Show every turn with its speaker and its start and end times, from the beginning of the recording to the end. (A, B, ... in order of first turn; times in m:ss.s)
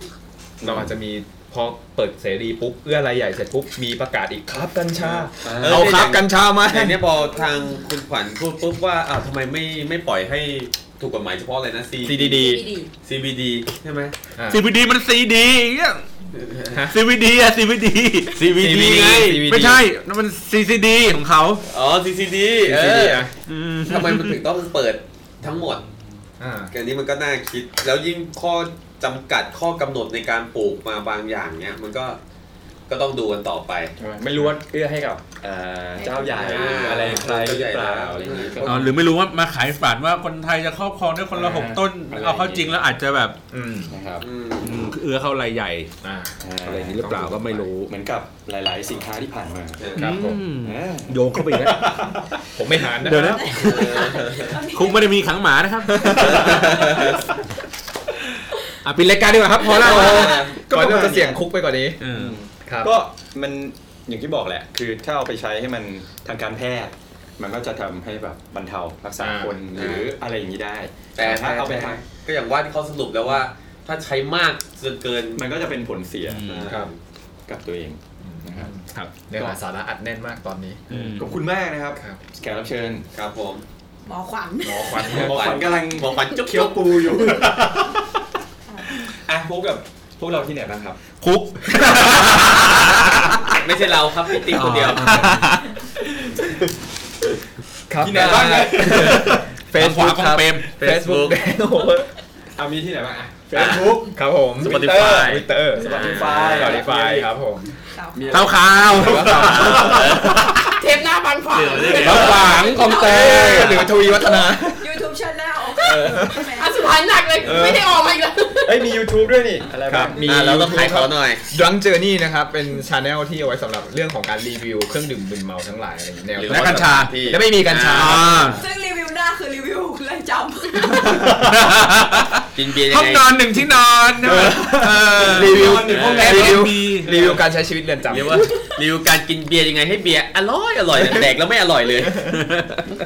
0:00.6-0:00.9 A
0:00.6-0:07.0 B
0:05.0-0:12.5 C
0:05.4-0:06.0 A
0:12.0-0:12.7 B
0:12.3-0:12.9 D
0:13.0-0:14.2 C
0:14.4-0:14.6 B
0:14.5-0:16.0 E
0:16.4-0:16.7 C
0:16.7-0:17.0 B
0:16.9-0:21.6 E
0:18.4-0:19.3 C
0:18.6-0:19.8 B
0:21.7-0:23.3 C
0:22.6-0:23.3 B
0:23.5-0:24.4 E
0:23.8-0:25.8 C
0:26.4-0:26.7 B
0:26.7-0:32.2 C
0:32.9-0:33.9 C
0:34.0-0:39.0 A
0:36.0-0:37.0 D
0:36.3-0:38.6 C
0:38.6-0:43.4 E
0:41.3-0:42.8 A
0:43.5-0:43.9 B
0:43.9-0:44.3 A
0:44.2-0:44.8 C
0:44.6-0:45.9 E
0:46.0-0:47.7 B
0:46.4-0:47.2 A
0:46.6-0:47.9 E
0:47.8-0:49.9 A
0:49.8-0:50.1 C
0:50.0-0:52.0 E
0:50.0-0:50.4 B
0:50.6-0:52.2 A
0:52.5-0:53.5 B
0:53.0-0:54.1 E
0:53.3-0:55.1 D
0:53.5-0:54.6 C
0:54.7-0:57.2 E
0:55.9-0:57.0 B
0:56.2-0:57.2 C
0:58.8-1:00.4 E
0:59.7-1:00.5 C
0:59.8-1:02.0 B
0:59.8-1:01.4 A
1:02.0-1:02.4 E
1:02.1-1:12.0 A
1:02.6-1:02.9 B
1:09.2-1:09.6 B
1:09.8-1:10.1 C
1:11.2-1:15.4 C
1:15.4-1:16.6 A
1:16.3-1:16.7 E
1:16.5-1:17.0 C
1:17.5-1:18.8 A
1:18.2-1:21.1 B
1:20.9-1:21.3 E
1:20.9-1:23.1 A
1:23.1-1:23.6 C
1:24.1-1:25.1 D
1:24.6-1:25.6 B
1:25.0-1:27.3 C
1:25.0-1:28.0 A
1:29.0-1:31.0 A
1:31.2-1:33.5 E
1:33.5-1:35.4 C
1:34.6-1:35.5 A
1:35.0-1:35.7 B
1:36.0-1:36.5 A
1:37.9-1:42.1 B
1:38.0-1:39.4 A
1:39.7-1:40.7 E
1:40.7-1:41.4 C
1:42.6-1:47.3 A
1:43.6-1:44.0 C
1:44.1-1:47.7 B
1:44.6-1:46.8 C
1:47.9-1:48.7 D
1:48.2-1:50.2 A
1:48.3-1:50.5 E
1:48.9-1:50.6 B
1:49.2-1:50.4 C
1:50.6-1:53.2 F
1:51.5-1:52.7 C
1:52.0-1:53.8 E
1:52.3-1:56.8 D
1:53.0-1:55.1 B
1:53.3-1:53.9 C
1:56.0-1:56.4 B
1:56.1-1:59.0 F
1:57.5-1:57.8 A
1:58.6-2:00.3 A
1:59.9-2:08.6 B
2:00.2-2:01.4 C
2:06.4-2:08.5 C
2:06.5-2:07.3 E
2:07.9-2:08.6 E
2:08.6-2:11.2 D
2:10.9-2:11.5 B
2:11.2-2:17.1 E
2:12.6-2:13.4 C
2:14.2-2:17.4 A
2:14.2-2:18.5 B
2:15.8-2:16.5 C
2:17.1-2:17.4 C
2:18.0-2:22.7 C